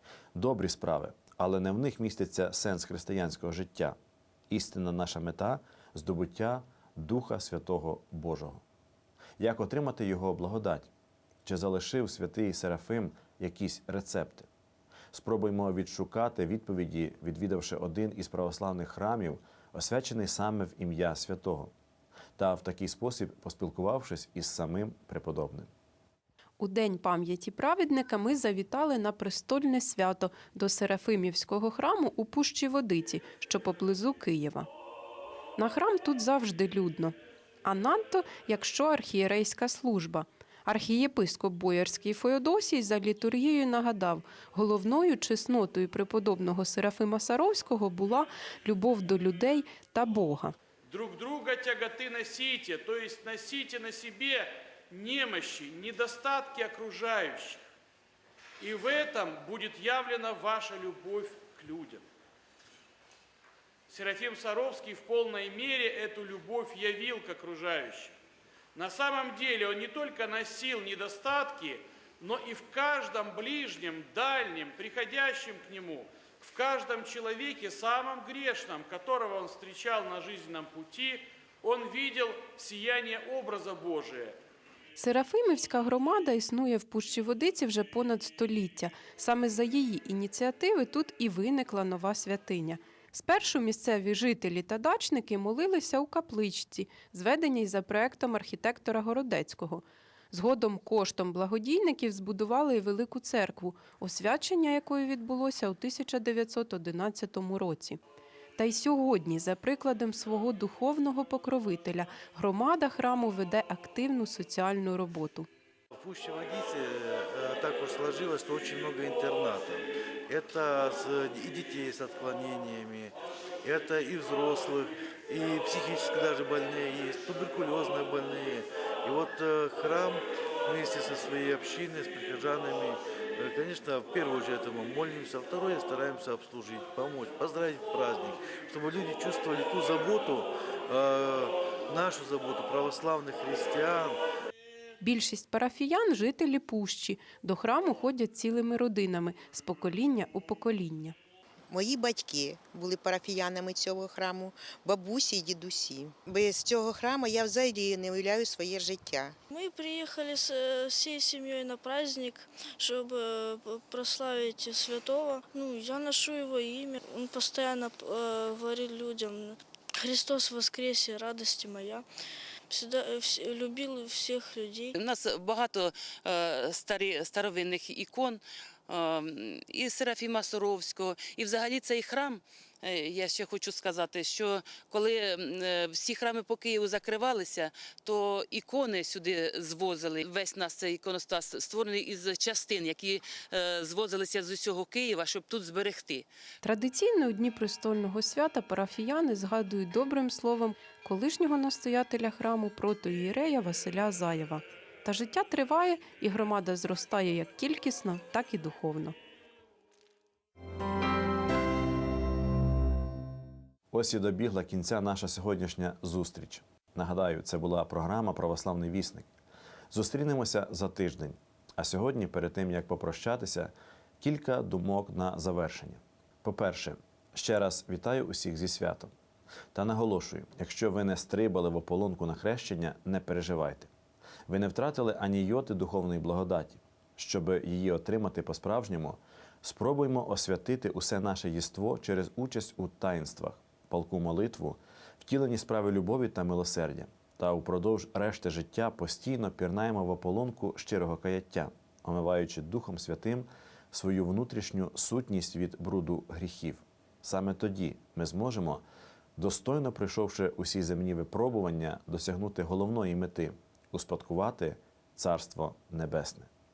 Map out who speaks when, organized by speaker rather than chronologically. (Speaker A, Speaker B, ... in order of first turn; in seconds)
Speaker A: 0.3-4.0, 4.5-8.6, 9.4-10.9, 11.4-14.5, 15.1-21.7, 22.4-25.7, 213.9-219.3, 219.9-229.1, 229.7-233.9, 234.5-258.8, 259.4-266.5
Speaker B: 26.6-34.7, 35.6-37.1, 37.6-50.5, 85.0-108.0, 108.6-115.5, 145.0-151.2, 196.6-209.1
Speaker C: 50.9-57.6, 58.6-62.0, 63.9-68.1, 68.8-84.3
Speaker D: 115.9-144.2
Speaker E: 151.7-159.3
Speaker F: 159.5-172.1, 172.7-174.9
Speaker G: 174.9-196.3